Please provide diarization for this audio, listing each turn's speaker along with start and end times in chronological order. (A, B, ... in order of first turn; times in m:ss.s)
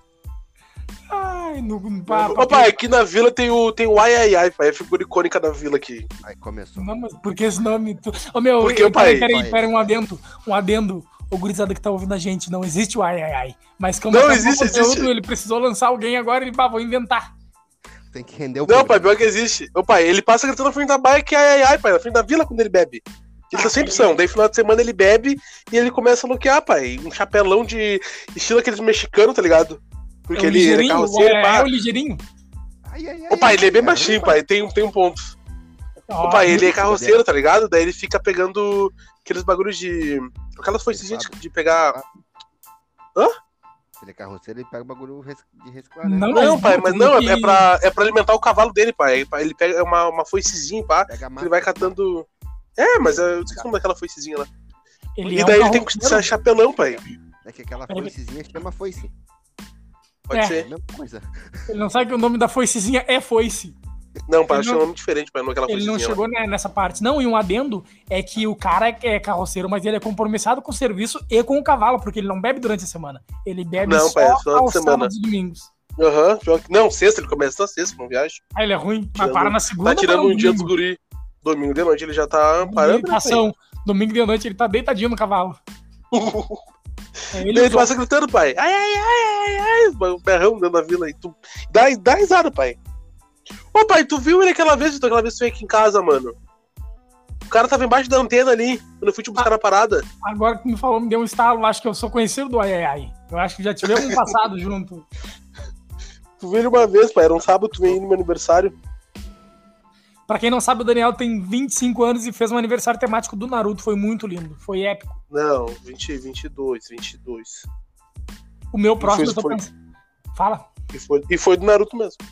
0:01.1-0:02.8 A
0:02.1-0:06.1 B
0:06.2-0:06.9 C
0:06.8-0:17.3 A
0:08.6-0:09.3 B
0:09.2-0:09.9 C
0:14.1-0:15.1 B
0:18.1-0:19.3 C
0:18.7-0:31.7 B
0:23.5-0:24.1 A
0:30.4-0:32.2 A
0:32.8-0:34.4 C
0:33.3-0:35.4 B
0:36.1-0:36.7 A
0:36.2-0:42.0 B
0:36.5-0:37.2 C
0:40.9-0:42.1 C
0:44.0-0:46.5 C
0:46.0-0:47.7 A
0:46.3-0:52.3 B
0:51.1-0:52.0 C
0:52.8-0:54.5 B
0:53.2-0:53.7 C
0:55.2-0:56.3 A
0:55.3-0:57.0 B
0:57.4-0:59.1 C
1:00.3-1:00.7 B
1:00.3-1:00.6 A
1:00.4-1:01.7 C
1:01.7-1:03.8 A
1:04.3-1:06.2 B
1:04.5-1:04.8 A
1:05.7-1:15.7 A
1:13.8-1:15.1 B
1:16.0-1:18.4 B
1:18.6-1:20.7 A
1:19.2-1:23.4 B
1:22.6-1:25.6 A
1:26.1-1:26.6 B
1:27.3-1:27.9 A
1:27.5-1:32.8 B
1:33.7-1:36.4 B
1:37.5-1:40.0 B
1:40.2-1:45.1 A
1:43.9-1:44.3 B
1:46.4-1:48.7 B
1:50.3-1:55.2 A
1:55.3-1:57.7 B
1:58.7-1:59.7 A
1:59.0-1:59.6 B
2:00.3-2:00.7 A
2:00.9-2:02.2 B